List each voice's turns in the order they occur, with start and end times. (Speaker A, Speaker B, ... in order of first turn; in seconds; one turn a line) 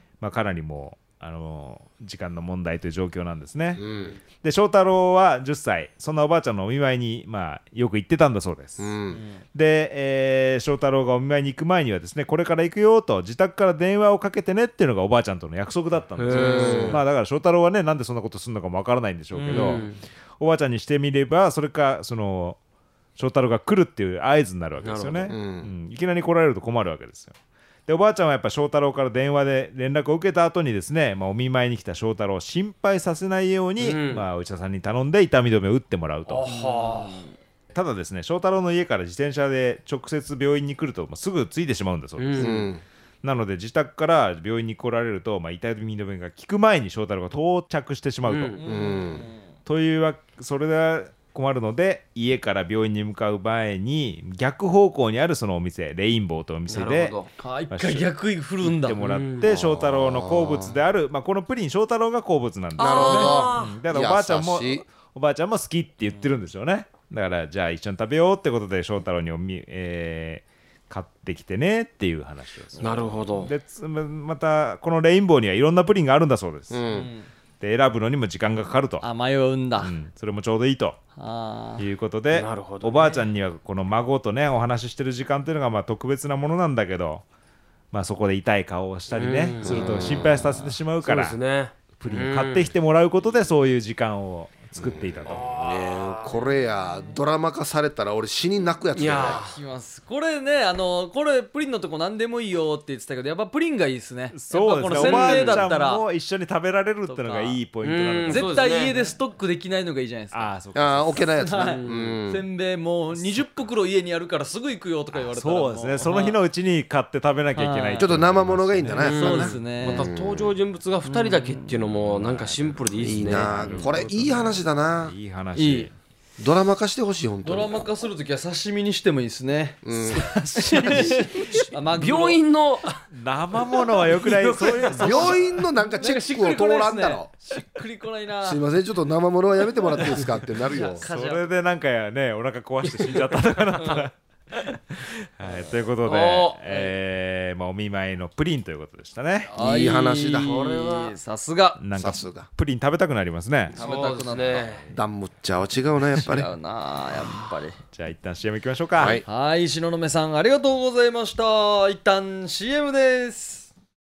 Speaker A: 0.2-3.8
Speaker B: 3.8-4.2
Speaker A: 4.4-9.0
Speaker B: 8.8-9.2
Speaker C: 9.1-9.4
Speaker A: 9.5-19.9
Speaker D: 16.2-17.0
Speaker B: 16.3-17.0
Speaker D: 19.4-20.0
Speaker C: 19.4-19.7
Speaker A: 20.4-22.6
Speaker A: 23.1-27.4
Speaker D: 24.8-25.4
Speaker B: 25.3-25.7
Speaker A: 27.9-36.5
Speaker D: 33.8-34.3
Speaker D: 36.3-37.2
Speaker C: 36.4-37.3
Speaker A: 37.7-42.6
Speaker D: 42.2-42.7
Speaker B: 42.4-42.8
Speaker A: 43.2-48.6
Speaker D: 48.3-48.6
Speaker C: 48.6-49.5
Speaker B: 48.6-49.3
Speaker A: 49.6-57.1
Speaker D: 56.7-57.3
Speaker C: 57.4-59.0
Speaker A: 57.7-58.1
Speaker A: 58.6-76.9
Speaker D: 59.0-59.5
Speaker B: 59.4-60.7
Speaker D: 62.8-63.8
Speaker B: 62.8-64.8
Speaker C: 72.8-73.0
Speaker D: 72.8-73.5
Speaker B: 76.7-77.1
Speaker C: 76.9-77.3
Speaker A: 77.6-79.1
Speaker C: 79.0-79.9
Speaker A: 79.8-81.0
Speaker C: 81.2-81.8
Speaker A: 81.8-87.2
Speaker D: 82.3-83.2
Speaker A: 87.9-91.4
Speaker D: 89.1-90.2
Speaker B: 89.6-90.6
Speaker D: 91.0-92.7
Speaker A: 92.0-95.6
Speaker B: 94.8-99.4
Speaker D: 95.3-96.4
Speaker D: 98.9-99.6
Speaker C: 99.3-106.0
Speaker A: 104.3-108.6
Speaker D: 104.9-105.7
Speaker C: 107.1-107.6
Speaker D: 107.8-108.9
Speaker C: 108.3-110.5
Speaker A: 110.3-111.3
Speaker B: 110.8-112.4
Speaker C: 111.4-116.4
Speaker D: 111.6-112.2
Speaker A: 113.1-113.5
Speaker A: 115.1-119.0
Speaker C: 117.5-118.1
Speaker B: 118.0-120.5
Speaker C: 118.9-120.1
Speaker D: 119.0-124.0
Speaker C: 121.0-121.7
Speaker A: 121.9-125.9
Speaker B: 123.0-125.1
Speaker C: 125.6-125.9
Speaker B: 126.4-127.9
Speaker C: 127.4-129.8
Speaker B: 129.8-131.7
Speaker A: 130.0-131.5
Speaker C: 130.6-132.4
Speaker D: 131.9-133.0
Speaker A: 133.1-135.5
Speaker D: 133.7-135.4
Speaker B: 135.0-137.3
Speaker C: 135.8-138.6
Speaker B: 138.4-141.1
Speaker C: 140.1-141.5
Speaker A: 141.0-149.5
Speaker D: 146.0-146.6
Speaker C: 149.5-151.8
Speaker B: 149.6-150.8
Speaker D: 150.4-151.1
Speaker A: 151.8-153.8
Speaker B: 151.9-152.5
Speaker C: 153.7-154.9
Speaker D: 153.8-154.9
Speaker B: 154.9-156.5
Speaker C: 156.1-157.8
Speaker A: 157.9-159.2
Speaker B: 159.0-159.2
Speaker C: 159.2-163.7